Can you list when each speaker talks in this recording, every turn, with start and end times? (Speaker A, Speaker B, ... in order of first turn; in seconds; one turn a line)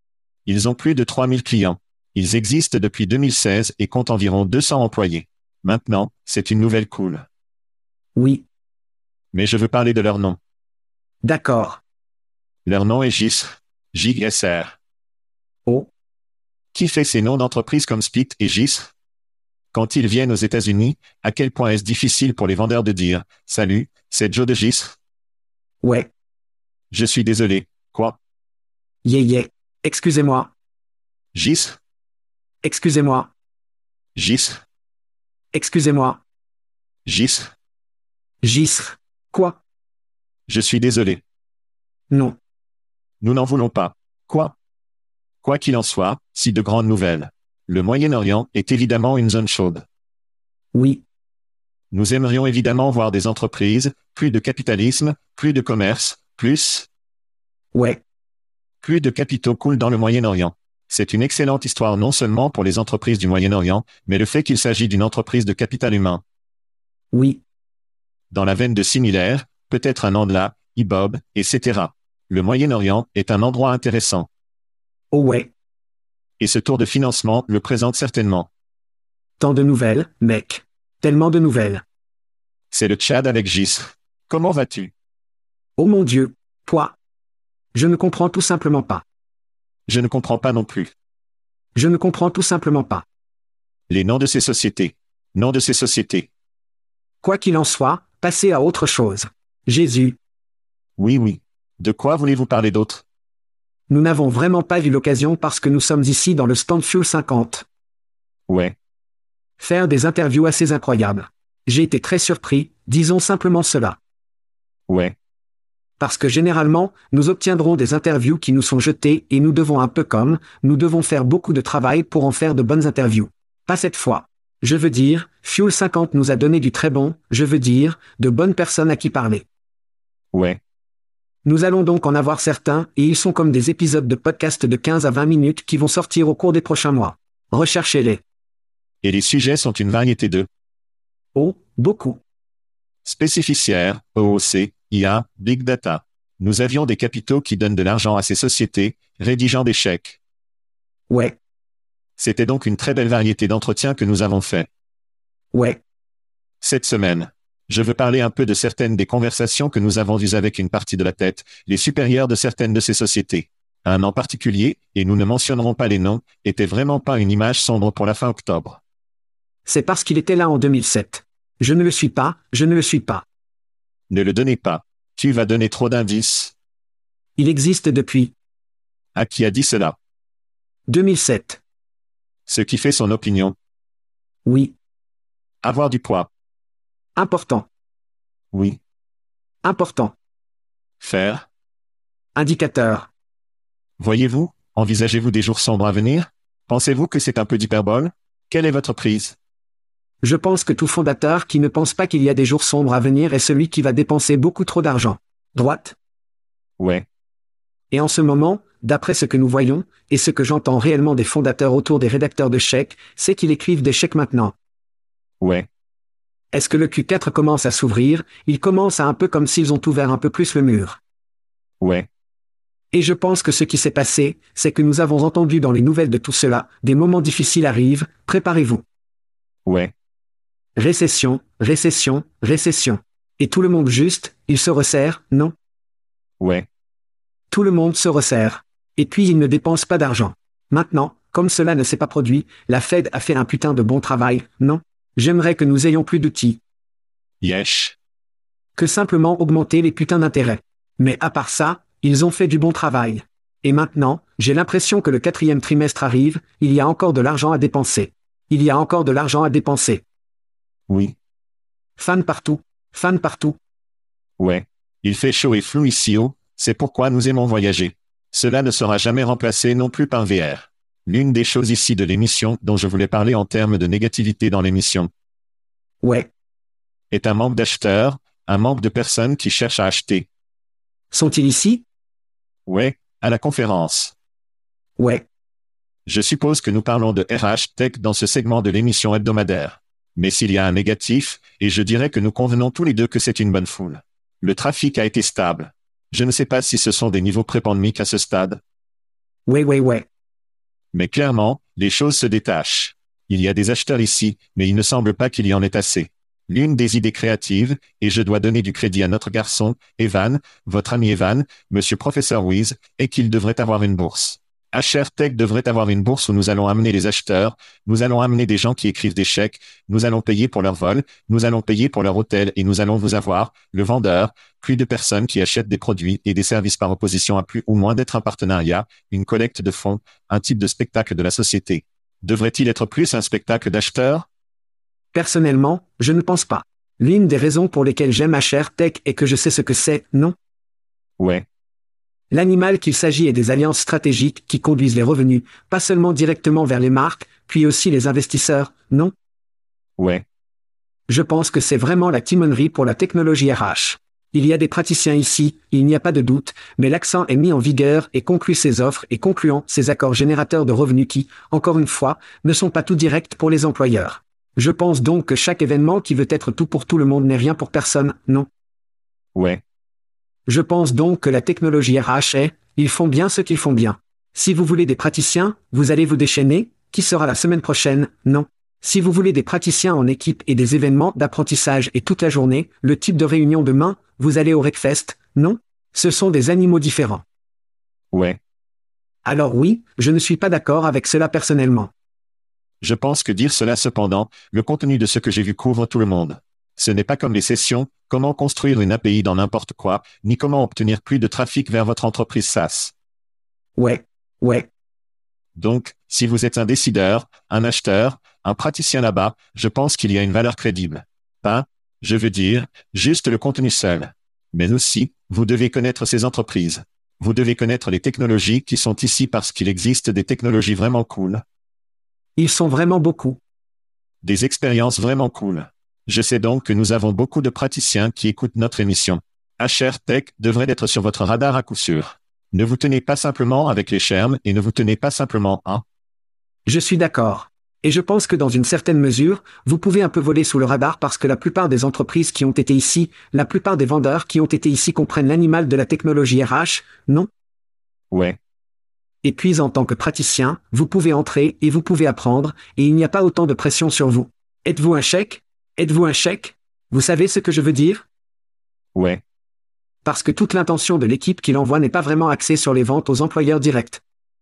Speaker A: 0.5-7.3
Speaker B: 8.2-8.4
Speaker A: 9.3-10.4
Speaker B: 11.2-11.8
Speaker A: 12.7-14.8
Speaker A: 16.7-18.9
Speaker A: 19.7-25.0
Speaker B: 25.8-26.1
Speaker A: 26.9-28.2
Speaker B: 29.1-30.5
Speaker A: 31.3-31.8
Speaker B: 32.6-33.3
Speaker A: 34.1-34.6
Speaker B: 35.5-36.2
Speaker A: 37.1-37.5
Speaker B: 38.4-39.6
Speaker A: 40.5-41.2
Speaker B: 42.1-42.4
Speaker A: 43.2-44.5
Speaker A: 45.4-49.8
Speaker B: 50.7-51.0
Speaker A: 51.9-56.9
Speaker B: 57.7-58.0
Speaker A: 58.8-66.2
Speaker B: 67.1-67.4
Speaker A: 68.3-74.3
Speaker B: 75.1-75.5
Speaker A: 76.4-78.5
Speaker B: 79.4-81.8
Speaker A: 82.7-84.9
Speaker B: 85.8-87.0
Speaker B: 87.7-89.0
Speaker A: 89.9-90.9
Speaker B: 91.8-93.0
Speaker A: 93.9-96.3
Speaker B: 97.2-100.2
Speaker A: 101.0-103.0
Speaker B: 103.9-107.7
Speaker A: 108.5-108.8
Speaker B: 109.6-114.0
Speaker A: 114.9-115.2
Speaker B: 116.0-129.4
Speaker A: 130.3-130.6
Speaker B: 131.4-138.2
Speaker A: 139.0-140.5
Speaker B: 141.3-142.2
Speaker A: 143.1-150.2
Speaker B: 151.1-151.4
Speaker A: 152.2-154.7
Speaker B: 155.5-155.8
Speaker A: 156.6-168.8
Speaker B: 169.7-173.2
Speaker A: 174.1-176.5
Speaker B: 177.4-178.3
Speaker A: 179.2-180.0
Speaker B: 180.9-181.6
Speaker A: 182.5-183.6
Speaker B: 184.5-184.8
Speaker A: 185.6-186.3
Speaker B: 187.2-187.7
Speaker A: 188.5-188.8
Speaker B: 189.6-190.1
Speaker A: 191.0-191.5
Speaker B: 192.4-193.1
Speaker A: 194.0-199.4
Speaker B: 200.2-206.0
Speaker A: 206.8-207.1
Speaker B: 207.9-214.6
Speaker A: 215.4-215.7
Speaker B: 216.5-221.0
Speaker A: 221.8-222.1
Speaker B: 222.9-228.8
Speaker A: 229.7-229.9
Speaker B: 230.8-235.5
Speaker A: 236.4-236.7
Speaker B: 237.5-246.6
Speaker A: 247.4-248.0
Speaker B: 248.8-260.0
Speaker A: 260.9-261.1
Speaker B: 262.0-263.6
Speaker A: 264.4-275.1
Speaker B: 276.0-276.3
Speaker A: 277.1-280.3
Speaker B: 281.1-281.8
Speaker A: 282.7-284.1
Speaker B: 285.0-285.2
Speaker A: 286.1-298.6
Speaker B: 299.5-300.1
Speaker A: 300.9-334.3
Speaker B: 335.1-340.4
Speaker A: 341.2-341.4
Speaker B: 342.3-349.1
Speaker A: 350.0-350.2
Speaker B: 351.1-368.5
Speaker A: 369.4-369.6
Speaker B: 370.5-387.2
Speaker A: 388.1-388.4
Speaker B: 389.2-391.9
Speaker A: 392.8-402.9
Speaker B: 403.8-404.7
Speaker A: 405.6-421.4
Speaker B: 422.4-423.4
Speaker A: 424.2-435.8
Speaker B: 436.7-447.3
Speaker A: 448.1-448.4
Speaker B: 449.2-458.1
Speaker A: 458.9-459.2
Speaker B: 460.1-464.0